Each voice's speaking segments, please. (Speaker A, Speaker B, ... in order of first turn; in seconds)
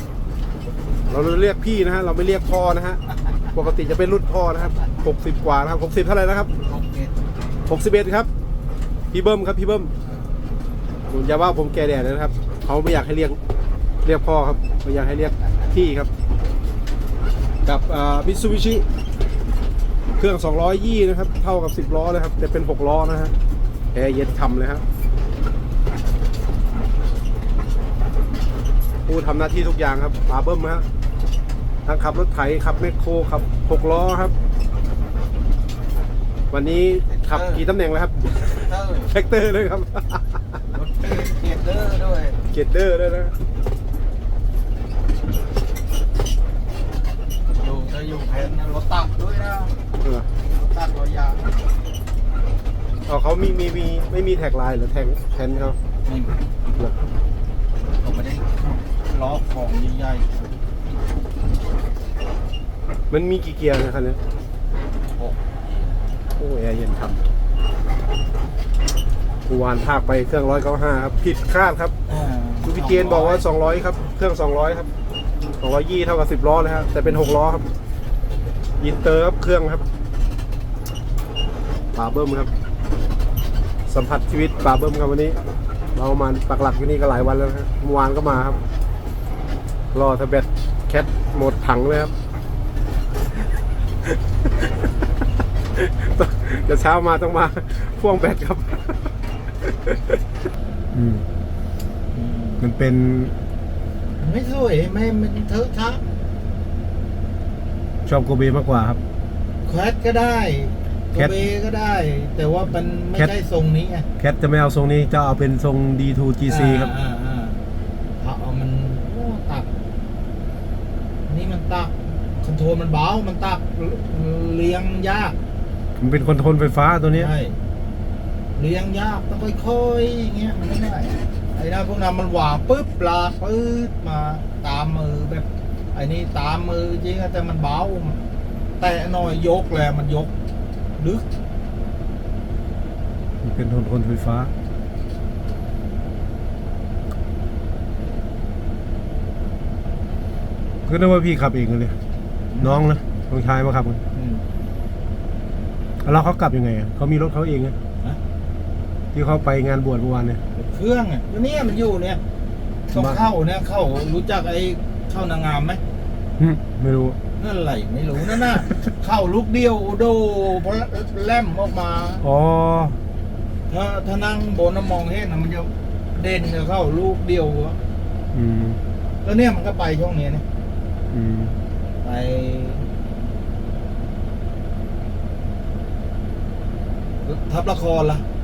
Speaker A: 1.1-6.5, 7.7-8.3, 9.1-9.9, 11.1-13.4, 14.0-16.1, 17.6-18.8, 20.2-23.3, 23.9-24.8, 29.1-30.8, 31.8-34.3, 36.5-38.2, 39.1-40.4, 42.5-43.3, 53.0-55.8, 63.1-64.2, 66.4-67.3, 69.5-71.9, 72.6-74.9, 75.6-77.7, 78.8-79.8, 81.9-82.5, 83.9-85.4, 85.9-88.6, 89.9-92.1, 95.7-99.1, 99.6-100.2, 100.9-101.2, 102.6-103.3, 108.0-109.0, 111.2-111.4, 114.2-116.9, 126.0-127.3, 143.4-144.5, 150.9-151.9, 152.6-154.0, 156.0-157.7, 159.1-160.4, 162.9-163.2, 166.4-167.2, 172.2-173.0, 178.3-178.8, 181.1-181.5
Speaker B: 6.7-7.1, 37.0-37.6, 38.4-39.1, 40.7-42.4, 47.5-49.7, 50.4-51.4, 56.0-56.3, 58.0-60.5, 72.1-73.4, 102.1-102.6, 104.2-106.0, 109.6-114.0, 116.5-117.6, 118.2-119.7, 121.3-125.3, 127.1-127.6, 128.6-138.2, 138.8-140.3, 141.0-141.2, 152.5-152.8, 154.1-154.4, 160.5-162.2, 162.9-165.8, 167.4-172.2, 173.7-177.8, 179.2-180.4, 182.0-182.9, 187.2-188.2